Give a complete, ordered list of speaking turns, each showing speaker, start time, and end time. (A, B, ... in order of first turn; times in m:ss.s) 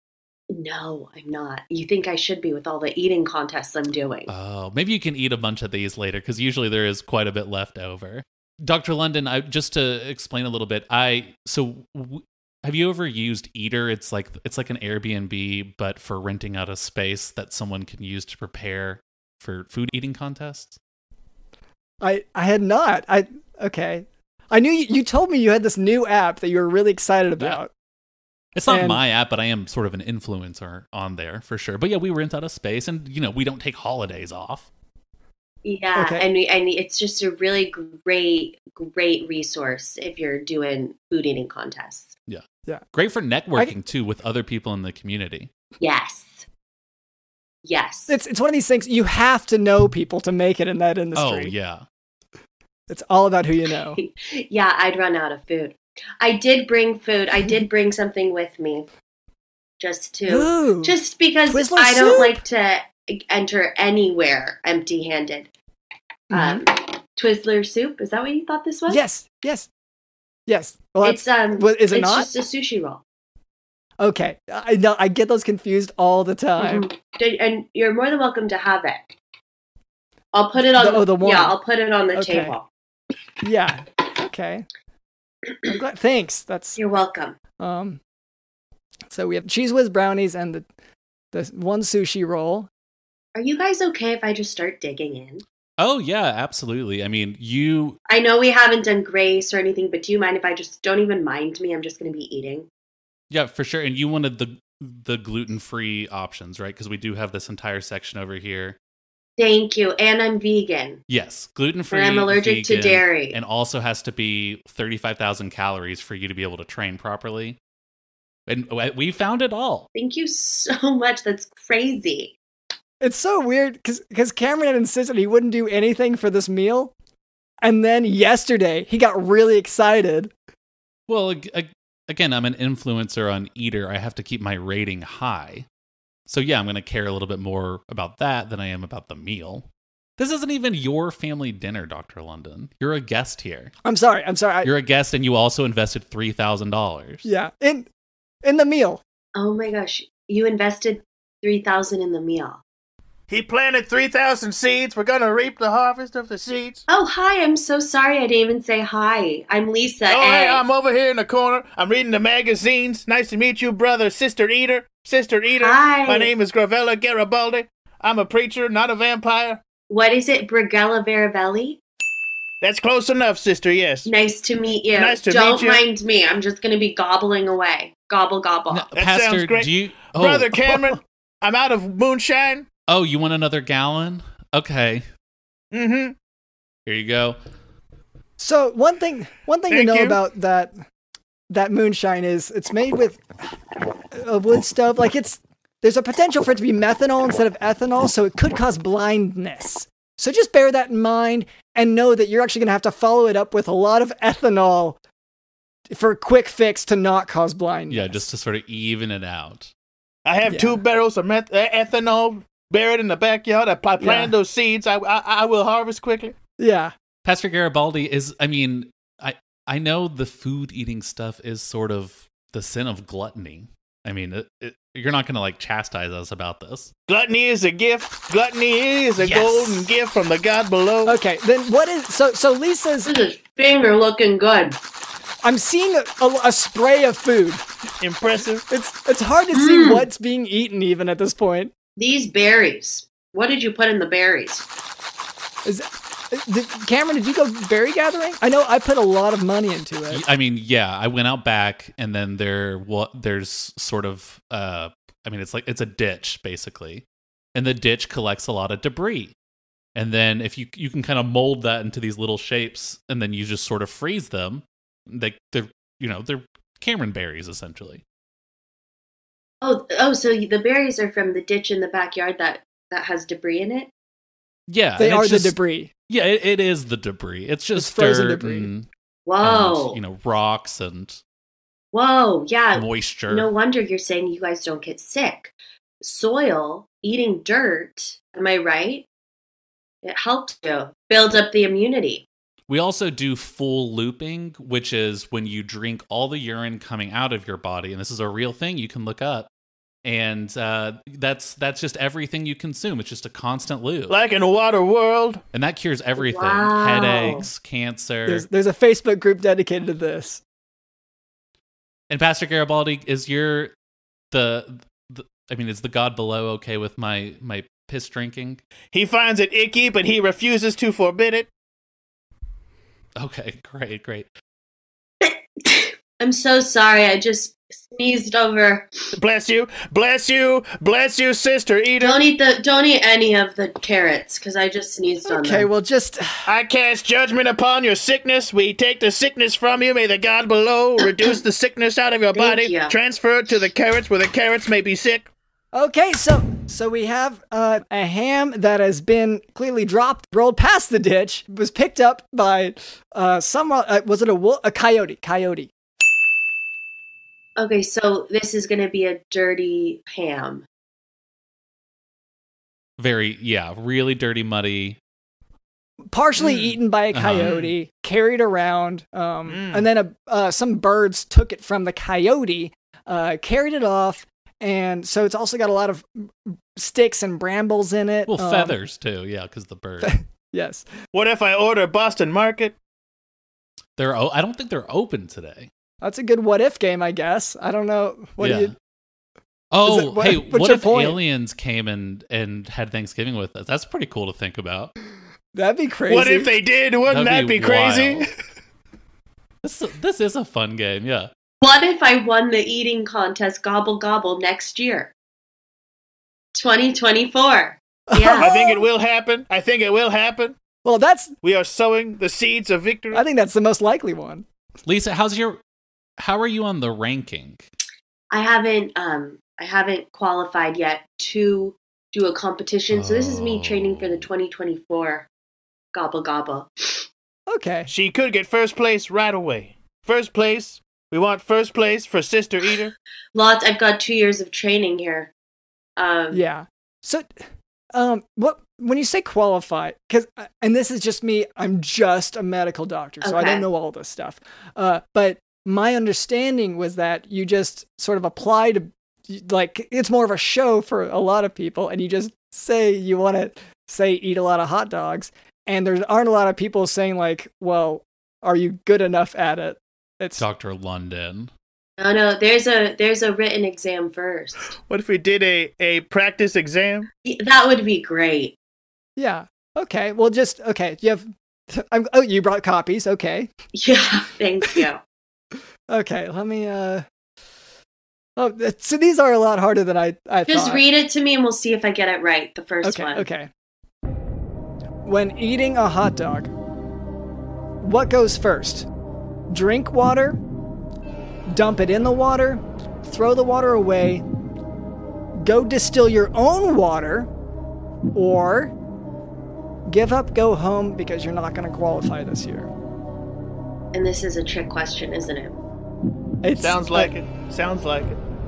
0:00.5-0:04.3 A
0:04.3-0:20.8 B
0:22.0-0:27.7 C
0:28.6-0:34.7 B
0:28.7-0:29.0 C
0:35.6-0:42.1 A
0:36.0-0:36.2 C
0:42.3-0:45.5 B
0:45.8-0:46.5 A
0:47.6-0:48.2 A
0:48.1-0:51.5 C
0:51.2-0:51.8 B
0:52.9-0:54.0 C
0:54.0-0:58.9 A
0:59.8-1:05.5 A
1:00.3-1:01.0 C
1:01.5-1:02.4 C
1:06.3-1:06.6 C
1:06.3-1:09.0 A
1:08.9-1:09.7 C
1:10.5-1:12.3 C
1:11.0-1:13.0 A
1:14.0-1:16.9 C
1:16.6-1:19.1 A
1:20.3-1:22.7 A
1:20.8-1:21.6 C
1:22.2-1:22.5 C
1:23.4-1:24.7 C
1:25.6-1:26.8 C
1:26.8-1:27.4 A
1:27.6-1:28.0 C
1:29.1-1:30.7 C
1:31.3-1:32.7 C
1:33.4-1:35.4 A
1:35.8-1:38.0 B
1:38.1-1:42.7 A
1:43.3-1:48.8 B
1:49.4-1:51.0 A
1:51.1-1:57.6 B
1:51.9-1:53.4 A
1:58.5-1:59.9 B
2:00.0-2:02.4 A
2:03.0-2:06.9 C
2:07.6-2:10.3 C
2:11.1-2:15.7 B
2:16.3-2:19.7 B
2:20.2-2:23.7 B
2:23.8-2:24.7 C
2:24.6-2:27.2 B
2:27.2-2:27.9 C
2:28.4-2:29.0 C
2:29.4-2:32.6 A
2:33.3-2:36.8 D
2:36.9-2:40.6 A
2:40.1-2:49.6 D
2:45.6-2:46.3 A
2:49.9-2:51.8 A
2:52.6-2:54.1 D
2:54.1-2:58.9 A
2:54.9-2:55.8 D
2:58.7-3:00.6 B
2:59.0-3:02.7 D
3:02.9-3:05.0 B
3:05.7-3:06.2 D
3:06.9-3:07.4 B
3:08.4-3:10.8 C
3:09.7-3:10.2 D
3:11.5-3:13.2 C
3:14.1-3:25.0 C
3:25.9-3:28.2 C
3:27.9-3:29.7 B
3:30.2-3:36.3 D
3:30.5-3:30.8 C
3:34.0-3:34.3 C
3:36.6-3:36.9 C
3:37.2-3:46.9 B
3:47.1-3:51.2 D
3:49.2-3:49.9 B
3:51.1-3:53.1 C
3:53.0-3:54.8 A
3:55.4-3:57.6 C
3:58.0-3:58.6 D
3:58.7-4:01.7 C
3:59.5-4:00.1 A
4:02.0-4:04.6 A
4:05.6-4:10.2 C
4:10.1-4:19.4 B
4:20.0-4:28.0 B
4:29.6-4:33.9 A
4:34.7-4:35.6 B
4:35.0-4:35.9 C
4:36.1-4:38.9 B
4:37.8-4:38.7 C
4:39.3-4:40.0 A
4:39.4-4:41.2 B
4:41.9-4:49.1 A
4:42.8-4:43.5 B
4:50.0-4:52.3 A
4:52.7-4:59.5 B
5:00.0-5:04.2 B
5:04.1-5:05.4 D
5:05.5-5:08.5 B
5:06.2-5:07.5 A
5:08.3-5:10.4 C
5:12.1-5:13.7 B
5:14.3-5:18.6 B
5:18.9-5:21.5 D
5:23.2-5:24.3 B
5:25.2-5:28.9 A
5:29.1-5:32.2 D
5:32.0-5:35.7 A
5:35.3-5:36.5 C
5:36.5-5:45.3 D
5:42.3-5:43.0 A
5:45.7-5:55.7 C
5:57.6-6:00.7 A
6:03.0-6:05.0 B
6:06.1-6:18.8 C
6:06.4-6:06.7 D
6:07.1-6:07.6 B
6:07.4-6:07.7 D
6:09.5-6:09.9 D
6:18.3-6:20.2 B
6:20.0-6:20.9 C
6:21.1-6:22.8 D
6:24.0-6:25.7 B
6:26.0-6:28.8 C
6:28.4-6:28.7 B
6:29.7-6:34.9 B
6:29.8-6:31.2 C
6:35.5-6:36.5 C
6:36.1-6:38.3 D
6:37.1-6:38.3 B
6:39.6-6:41.3 B
6:41.6-6:45.1 A
6:46.5-6:48.5 A
6:48.1-6:48.9 C
6:48.4-6:50.6 D
6:50.8-6:51.4 C
6:51.4-6:53.2 D
6:53.1-6:54.5 C
6:54.9-6:55.6 B
6:56.2-6:57.6 B
6:58.3-7:05.3 A
7:02.9-7:04.3 B
7:05.9-7:07.1 A
7:07.5-7:07.9 C
7:07.9-7:12.9 D
7:13.3-7:15.3 A
7:16.0-7:16.4 A
7:16.3-7:17.3 C
7:17.9-7:40.4 C
7:23.2-7:23.6 A
7:40.4-7:41.5 B
7:42.0-7:44.7 A
7:44.9-7:47.1 D
7:47.2-7:48.6 A
7:49.2-7:53.5 C
7:53.7-7:55.0 A
7:55.9-7:57.1 C
7:58.4-8:00.8 C
8:00.5-8:03.3 A
8:02.8-8:03.5 C
8:05.0-8:06.5 C
8:07.8-8:08.9 C
8:09.5-8:10.4 C
8:11.5-8:14.2 C
8:15.4-8:17.3 C
8:18.1-8:18.7 C
8:19.9-8:22.7 C
8:23.9-8:25.6 A
8:26.4-8:27.1 C
8:26.6-8:28.2 D